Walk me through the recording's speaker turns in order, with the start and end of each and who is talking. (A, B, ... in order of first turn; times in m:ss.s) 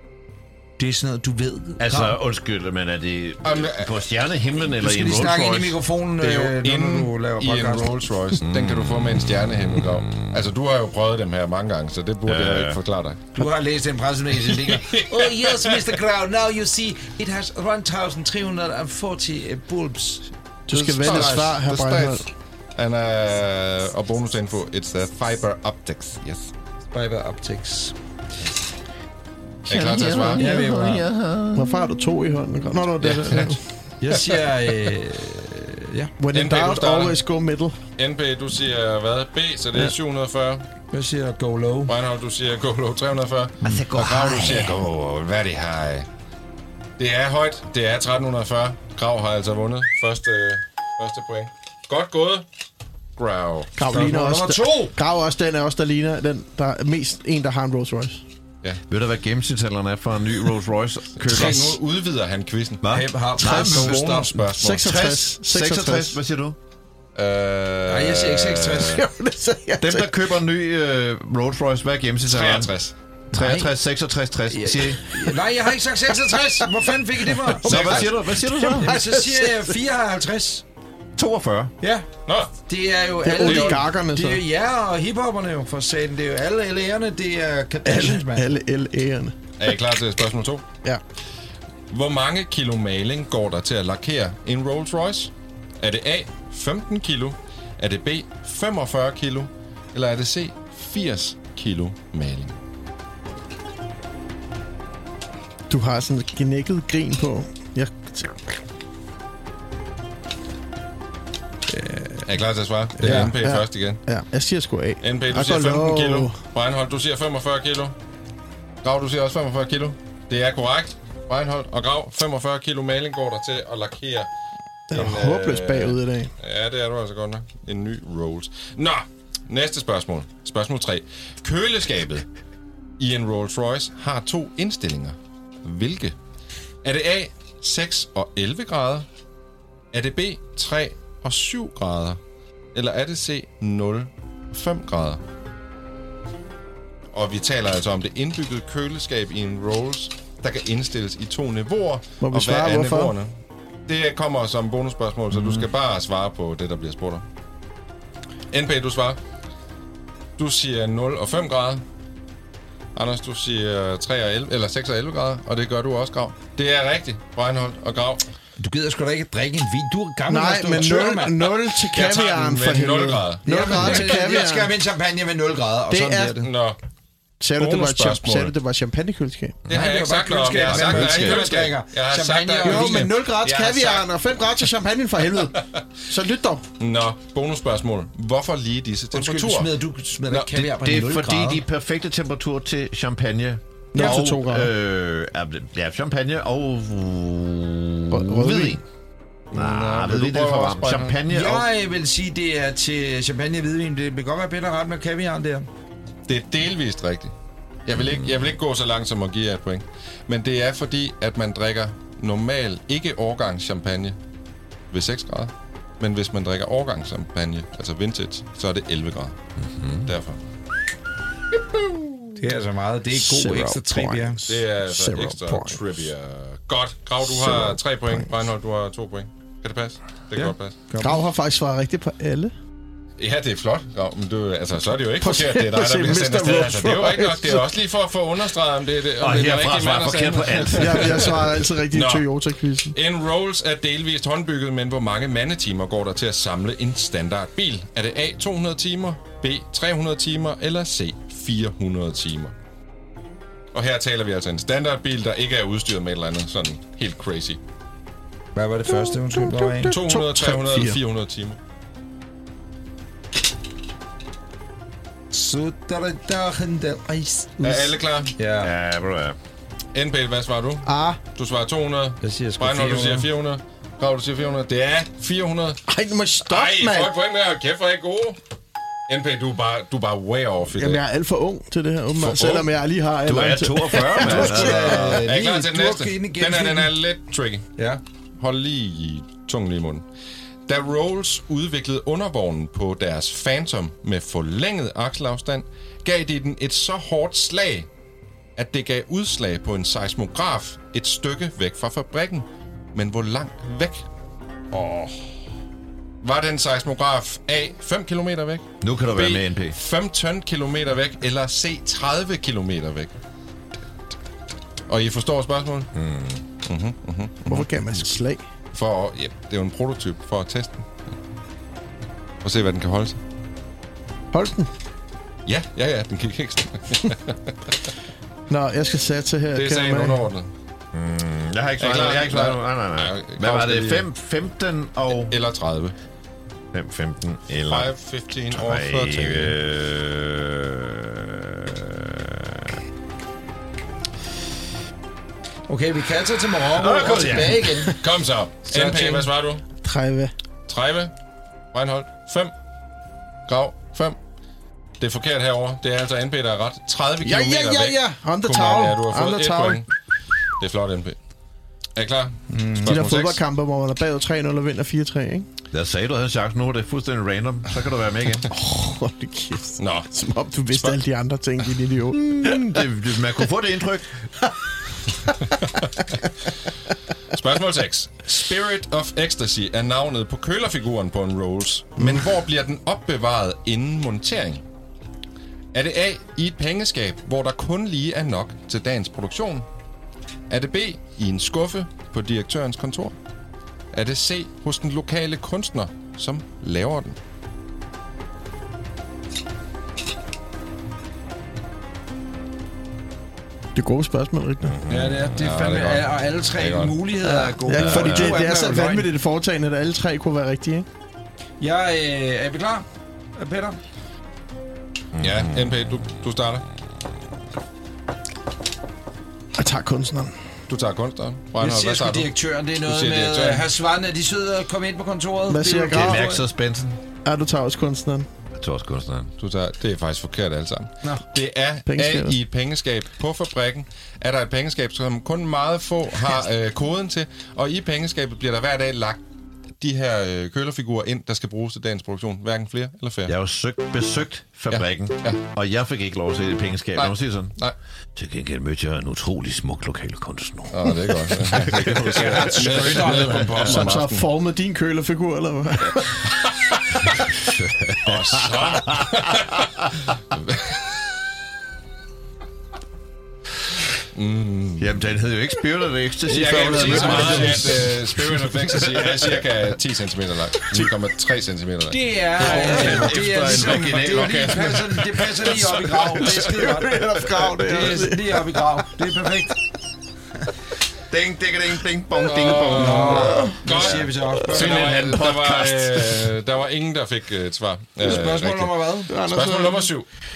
0:00.8-0:02.2 A
0:01.8-0:05.8 B
0:03.4-0:03.9 C
0:04.8-0:08.0 A
0:06.2-0:13.2 C
0:08.4-0:10.4 B
0:12.2-0:12.8 B
0:13.3-0:20.3 A
0:14.5-0:15.8 C
0:20.7-0:22.2 D
0:20.7-0:26.5 C
0:21.0-0:21.5 A
0:26.9-0:27.9 A
0:29.6-0:31.8 B
0:29.7-0:30.4 C
0:30.3-0:31.0 A
0:31.5-0:33.6 D
0:33.0-0:33.5 C
0:34.0-0:36.1 A
0:34.1-0:34.4 C
0:36.2-0:37.8 D
0:36.3-0:37.2 C
0:38.0-0:40.6 C
0:40.9-0:41.9 A
0:41.9-0:46.1 C
0:43.6-0:44.9 B
0:47.0-0:52.4 C
0:53.2-0:53.7 C
0:53.8-0:58.2 D
0:53.9-0:54.9 A
0:58.9-1:01.8 B
1:01.2-1:04.8 C
1:02.8-1:06.6 B
1:02.9-1:04.3 A
1:04.6-1:06.2 D
1:07.1-1:09.0 C
1:07.9-1:09.0 A
1:09.0-1:10.1 D
1:09.8-1:12.7 B
1:12.2-1:12.9 C
1:13.3-1:15.2 B
1:14.5-1:18.2 A
1:17.4-1:19.7 D
1:17.6-1:18.9 B
1:17.7-1:18.0 C
1:18.8-1:20.6 A
1:21.2-1:21.7 B
1:21.8-1:22.1 A
1:22.3-1:22.5 C
1:22.7-1:28.5 A
1:23.2-1:24.4 D
1:23.4-1:23.8 C
1:27.8-1:29.3 D
1:29.6-1:30.6 C
1:31.9-1:42.5 C
1:45.7-1:48.4 D
1:51.8-1:52.2 A
1:52.2-1:54.0 C
1:53.0-1:56.4 D
1:53.0-1:53.3 A
1:55.0-1:57.9 C
1:58.8-2:04.3 C
2:04.9-2:06.3 D
2:04.9-2:12.2 C
2:13.0-2:16.2 C
2:16.8-2:19.1 C
2:19.9-2:22.2 C
2:22.7-2:25.2 C
2:27.1-2:33.3 C
2:32.2-2:33.1 D
2:33.9-2:37.2 C
2:38.5-2:39.2 C
2:40.4-2:41.8 C
2:42.9-2:48.2 C
2:48.6-2:51.5 A
2:50.3-2:54.7 D
2:51.8-2:54.3 C
2:53.4-2:56.5 A
2:55.9-2:56.4 D
2:56.4-2:56.8 C
2:57.4-2:59.6 D
2:57.6-2:58.5 C
2:59.7-3:04.1 C
2:59.7-3:03.1 A
3:00.6-3:01.5 B
3:02.6-3:06.6 D
3:06.8-3:09.7 C
3:09.1-3:11.6 A
3:10.6-3:18.8 B
3:13.9-3:14.7 D
3:18.1-3:18.8 D
3:19.5-3:21.7 B
3:19.5-3:21.2 C
3:21.3-3:25.7 A
3:26.3-3:27.3 C
3:27.8-3:34.2 C
3:27.9-3:28.5 B
3:34.9-3:39.4 C
3:39.6-3:40.1 B
3:40.0-3:40.4 C
3:41.7-3:42.3 C
3:42.4-3:44.4 A
3:43.1-3:45.8 D
3:44.5-3:50.7 C
3:47.2-3:48.3 D
3:50.3-3:51.2 A
3:51.0-3:52.5 D
3:53.2-4:02.2 C
3:55.2-3:57.7 D
3:59.2-4:01.5 B
4:00.8-4:02.9 D
4:02.9-4:12.5 C
4:13.7-4:17.6 C
4:18.5-4:19.9 A
4:18.9-4:21.0 D
4:19.9-4:21.6 C
4:25.3-4:27.6 A
4:27.6-4:27.9 D
4:27.6-4:28.3 C
4:28.4-4:28.7 A
4:28.6-4:29.4 B
4:29.9-4:35.8 C
4:30.8-4:31.2 D
4:32.2-4:33.3 A
4:35.9-4:37.1 D
4:36.4-4:38.4 C
4:39.1-4:41.0 C
4:40.7-4:44.8 D
4:42.2-4:42.7 C
4:43.2-4:45.2 B
4:44.2-4:46.9 A
4:44.3-4:47.6 C
4:48.4-4:50.0 C
4:50.6-4:57.9 C
4:58.6-5:04.0 C
5:06.2-5:13.1 C
5:08.8-5:09.8 B
5:14.9-5:15.9 C
5:15.9-5:16.4 B
5:16.6-5:18.1 C
5:17.4-5:18.4 D
5:18.7-5:20.9 C
5:22.4-5:23.2 C
5:24.3-5:24.7 D
5:25.4-5:27.8 C
5:28.5-5:30.3 D
5:29.5-5:30.5 C
5:30.9-5:35.3 B
5:31.8-5:34.1 C
5:35.2-5:35.9 C
5:36.7-5:37.9 B
5:37.6-5:39.5 C
5:38.5-5:42.7 B
5:45.7-5:48.0 A
5:46.7-5:47.9 B
5:48.0-5:49.6 C
5:48.7-5:49.3 A
5:49.8-5:50.3 D
5:50.7-5:51.1 C
5:51.7-5:52.5 C
5:53.4-5:54.2 C
5:55.0-5:59.9 C
5:57.2-5:59.8 D
6:00.6-6:01.2 C
6:02.0-6:03.4 C
6:02.5-6:03.0 A
6:02.8-6:05.5 D
6:05.7-6:08.5 B
6:08.5-6:12.8 D
6:09.8-6:10.1 C
6:10.7-6:11.0 C
6:12.1-6:14.1 B
6:17.3-6:24.6 C
6:25.7-6:29.7 C
6:30.5-6:33.2 C
6:33.9-6:37.2 C
6:43.8-6:44.8 D
6:44.9-6:45.3 B
6:44.9-6:49.1 A
6:45.3-6:46.9 C
6:47.2-6:50.8 D
6:47.8-6:48.4 B
6:51.6-6:52.8 A
6:53.4-6:53.8 A
6:55.2-6:55.7 B
6:55.2-6:56.6 C
6:59.6-7:00.3 D
7:00.7-7:02.3 C
7:01.6-7:06.4 A
7:02.8-7:03.7 C
7:05.5-7:06.3 D
7:05.9-7:07.0 B
7:07.2-7:08.3 D
7:08.5-7:09.3 B
7:09.4-7:19.2 C
7:11.8-7:12.4 D
7:19.8-7:23.3 C
7:23.2-7:27.6 B
7:24.7-7:25.4 C
7:27.0-7:27.7 C
7:28.2-7:33.9 B
7:30.7-7:34.3 C
7:31.8-7:33.8 A
7:33.6-7:36.2 D
7:36.3-7:37.1 C
7:37.4-7:39.4 B
7:38.0-7:39.7 C
7:40.3-7:40.9 C
7:44.1-7:44.9 C
7:44.8-7:49.4 B
7:46.3-7:47.9 A
7:46.3-7:56.4 C
7:51.9-7:59.6 A
7:52.4-7:54.9 B
7:56.4-7:58.6 D
8:01.1-8:06.3 B
8:02.2-8:10.0 C
8:02.4-8:05.1 A
8:08.0-8:09.1 A
8:09.1-8:09.9 D